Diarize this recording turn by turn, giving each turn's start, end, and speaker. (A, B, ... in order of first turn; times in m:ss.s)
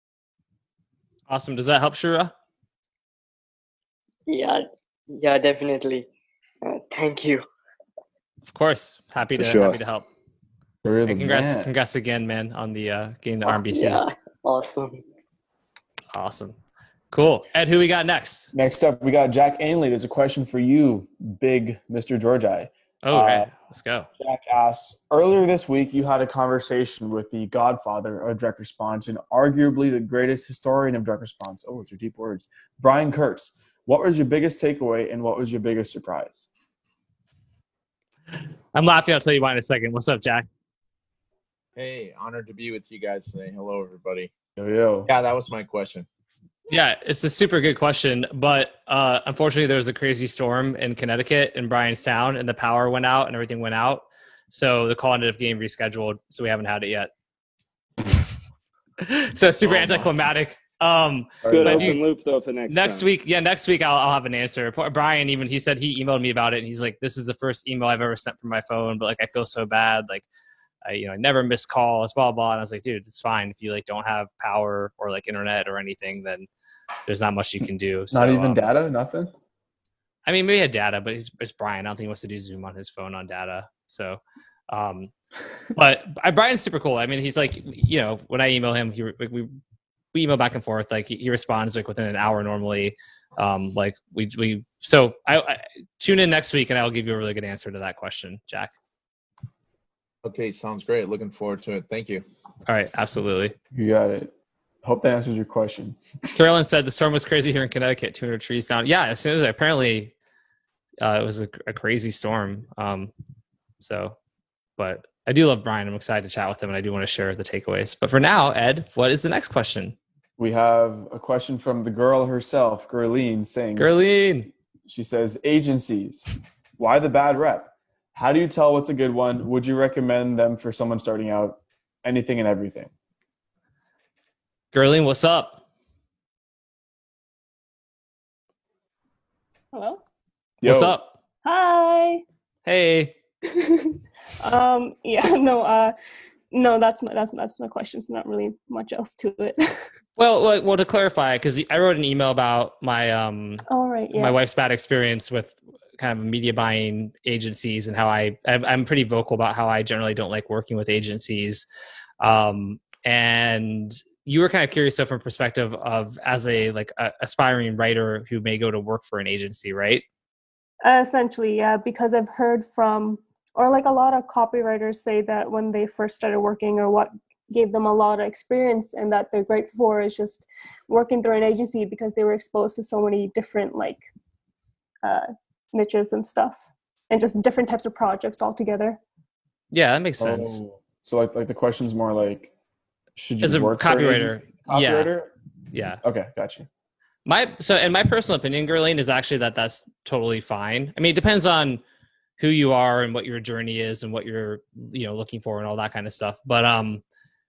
0:01.3-0:02.3 A
0:04.3-0:06.1 B
0:06.6-0:07.4 B
0:08.5-0:10.0 A
0:09.3-0:09.8 C
0:10.8-0:11.7 D
0:11.1-0:14.0 A
0:13.4-0:15.0 B
0:16.1-0:16.6 A
0:17.1-0:18.5 A
0:18.5-0:23.5 D
0:23.0-0:24.1 A
0:24.2-0:36.5 D
0:38.7-0:40.5 A
0:41.8-0:44.3 E
0:44.6-0:45.1 D
0:45.0-0:46.1 E
0:46.7-0:57.1 A
0:59.0-1:02.0 A
0:59.6-1:00.1 D
1:01.4-1:02.0 D
1:01.5-1:03.1 C
1:02.7-1:10.2 A
1:10.9-1:16.5 A
1:17.0-1:18.7 A
1:18.1-1:19.3 D
1:20.2-1:25.1 A
1:25.8-1:29.5 A
1:30.1-1:38.7 A
1:40.2-1:42.2 E
1:42.7-1:43.5 A
1:43.7-1:44.3 D
1:44.8-1:46.0 D
1:46.3-1:50.1 A
1:51.0-1:53.1 A
1:53.8-1:54.2 A
1:54.8-2:00.0 A
2:00.4-2:03.9 D
2:03.8-2:04.5 A
2:04.9-2:12.9 D
2:14.7-2:15.6 A
2:19.7-2:20.0 F
2:20.6-2:21.0 D
2:20.6-2:21.1 A
2:21.4-2:22.2 F
2:22.7-2:23.1 A
2:24.4-2:26.0 F
2:26.5-2:29.8 F
2:30.2-2:41.7 A
2:33.7-2:34.4 F
2:42.2-2:50.0 A
2:50.8-3:04.0 F
3:05.0-3:09.0 F
3:09.7-3:10.6 A
3:10.2-3:12.5 D
3:13.2-3:15.3 D
3:13.4-3:15.1 A
3:15.7-3:16.0 A
3:16.0-3:16.7 D
3:17.2-3:21.8 A
3:22.4-3:27.0 A